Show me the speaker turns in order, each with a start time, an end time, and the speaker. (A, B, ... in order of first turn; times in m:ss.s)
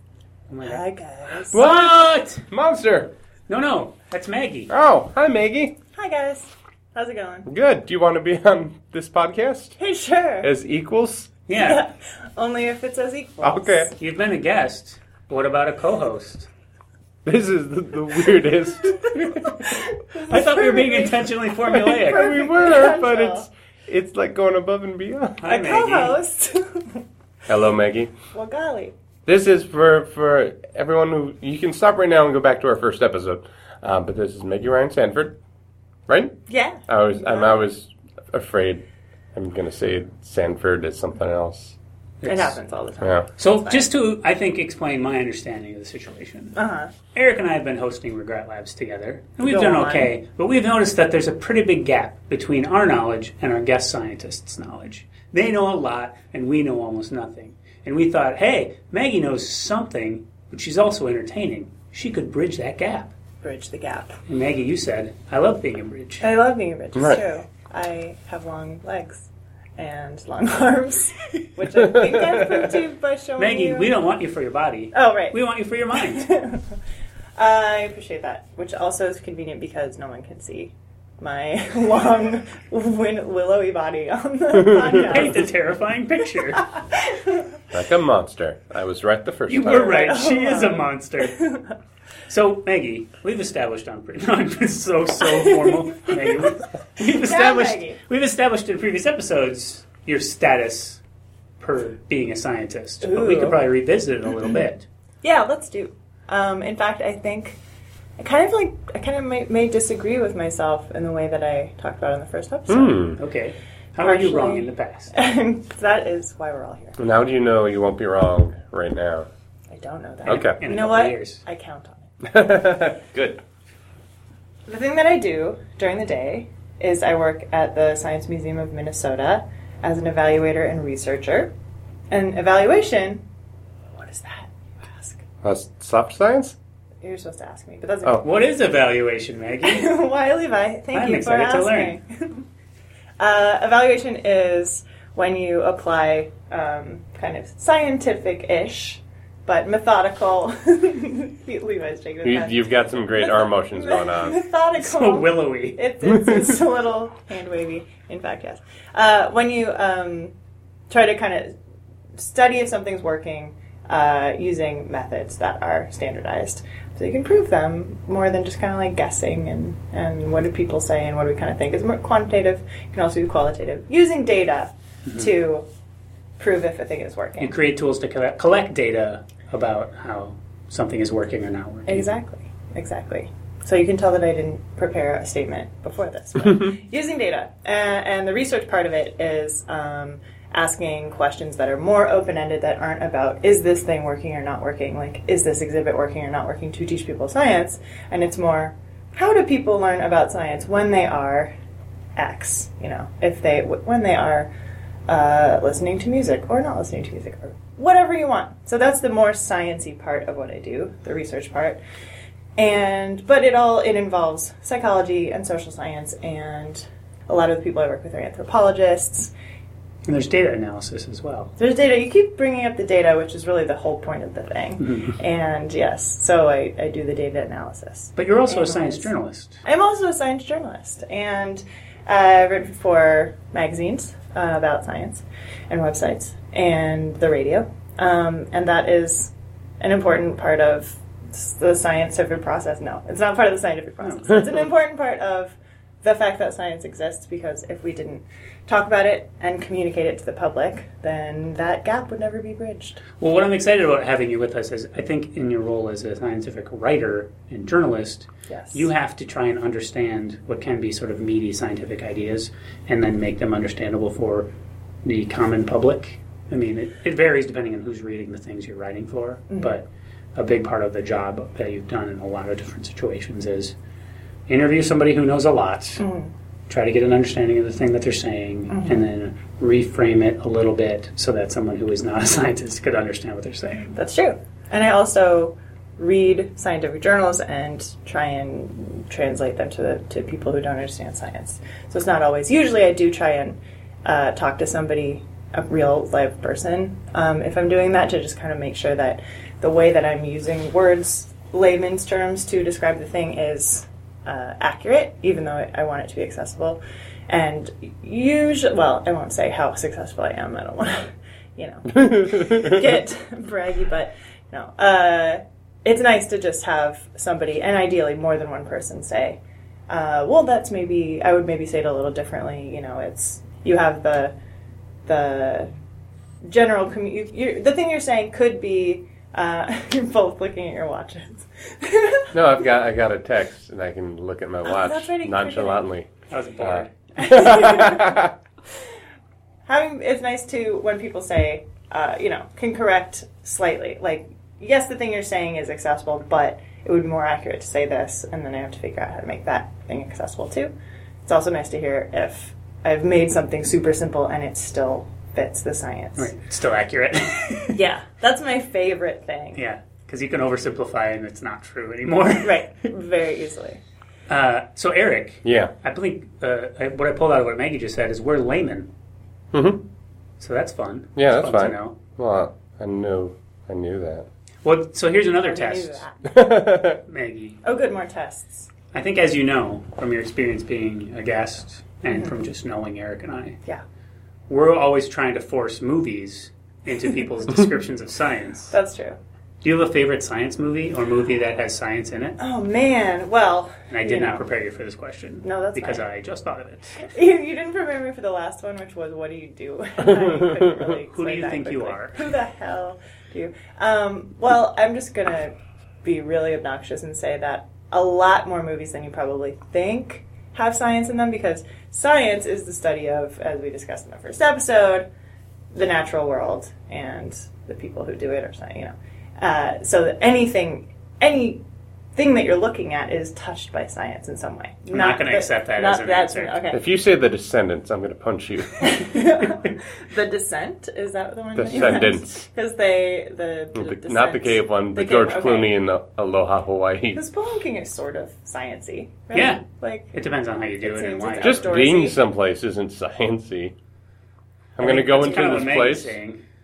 0:00.5-0:00.8 A
0:00.6-0:01.7 B
0:01.5-0:02.5 A
0:01.5-0:03.1 C
0:03.5-0:04.7 A
0:04.7-0:05.8 C
0:06.0-0:07.5 B
0:07.5-0:09.8 C
0:09.8-0:10.5 B
0:10.4-0:11.3 C
0:11.5-0:11.8 A
0:11.5-0:14.0 B
0:13.4-0:13.9 C
0:14.0-0:16.5 A
0:17.2-0:19.3 C
0:19.1-0:23.5 B
0:20.2-0:22.4 A
0:21.9-0:25.4 C
0:25.4-0:26.2 A
0:25.4-0:27.0 B
0:27.5-0:28.1 C
0:28.3-0:28.9 B
0:29.3-0:35.4 C
0:36.1-0:36.4 C
0:36.5-0:37.7 B
0:36.9-0:38.8 C
0:39.4-0:41.8 C
0:42.2-0:42.6 A
0:42.2-0:43.9 B
0:43.4-0:46.6 A
0:46.6-0:46.9 B
0:47.1-1:03.1 A
0:49.4-0:50.1 B
1:03.4-1:04.2 B
1:04.3-1:06.2 A
1:06.2-1:13.9 B
1:07.0-1:07.2 C
1:12.0-1:12.6 C
1:13.4-1:16.3 A
1:14.9-1:15.4 B
1:15.9-1:16.6 B
1:17.4-1:25.5 B
1:24.8-1:26.7 A
1:26.7-1:27.5 B
1:27.7-1:30.1 C
1:29.5-1:31.5 A
1:29.8-1:31.6 B
1:32.3-1:41.0 A
1:35.2-1:38.0 B
1:41.6-1:44.8 A
1:43.0-1:43.6 B
1:45.2-1:47.6 B
1:48.2-1:53.1 B
1:52.7-1:53.2 C
1:53.2-1:55.1 A
1:54.0-1:57.0 B
1:57.0-1:59.3 C
1:59.7-2:02.1 B
2:00.2-2:01.4 A
2:00.3-2:00.6 C
2:02.2-2:03.4 C
2:04.7-2:11.5 B
2:12.1-2:13.2 B
2:13.9-2:15.2 B
2:15.4-2:16.6 C
2:17.0-2:18.2 B
2:18.2-2:20.0 A
2:19.6-2:22.4 B
2:20.9-2:22.0 A
2:23.2-2:40.3 B
2:32.2-2:34.4 C
2:34.8-2:35.8 A
2:40.9-2:41.6 B
2:42.2-2:55.7 B
2:56.4-2:57.6 B
2:57.4-3:02.1 A
3:01.9-3:21.5 B
3:22.2-3:24.5 B
3:25.1-3:31.8 B
3:32.6-3:39.3 B
3:40.1-3:41.5 A
3:41.6-3:49.1 B
3:48.2-3:49.6 A
3:49.6-4:13.0 B
4:04.0-4:04.6 A
4:13.2-4:24.5 A
4:18.5-4:18.9 B
4:25.0-4:33.7 A
4:29.5-4:29.8 B
4:34.5-4:36.0 A
4:36.0-4:36.3 B
4:36.7-4:44.0 A
4:38.7-4:39.0 B
4:43.9-5:24.3 B
5:12.1-5:12.8 C
5:25.1-5:25.7 B
5:26.4-5:32.4 B
5:32.3-5:38.3 C
5:34.6-5:35.9 B
5:36.3-5:36.9 A
5:37.2-5:38.2 B
5:39.7-5:50.7 B
5:51.2-5:56.3 B
5:56.2-5:57.8 A
5:57.7-5:59.6 B
5:59.6-6:02.7 A
6:02.4-6:03.8 B
6:04.3-6:08.9 A
6:05.4-6:05.7 C
6:09.5-6:09.8 C
6:10.4-6:12.0 A
6:11.2-6:14.3 C
6:14.6-6:16.0 A
6:15.4-6:16.4 B
6:16.3-6:17.0 C
6:16.9-6:17.6 A
6:17.6-6:18.7 B
6:18.9-6:23.6 A
6:22.1-6:22.4 B
6:24.5-6:28.8 A
6:28.7-6:29.2 B
6:29.6-6:32.4 A
6:32.4-6:34.4 B
6:33.9-6:37.1 A
6:35.4-6:36.1 B
6:37.0-6:55.1 B
6:41.0-6:42.2 A
6:55.7-7:01.6 B
7:02.2-7:06.8 B
7:04.9-7:06.7 A
7:06.7-7:09.2 C
7:08.8-7:15.8 B
7:11.6-7:12.4 C
7:13.8-7:17.2 C
7:17.1-7:20.2 B
7:19.3-7:21.8 A
7:20.8-7:22.2 B
7:21.4-7:23.7 C
7:24.8-7:26.2 C
7:24.8-7:26.4 A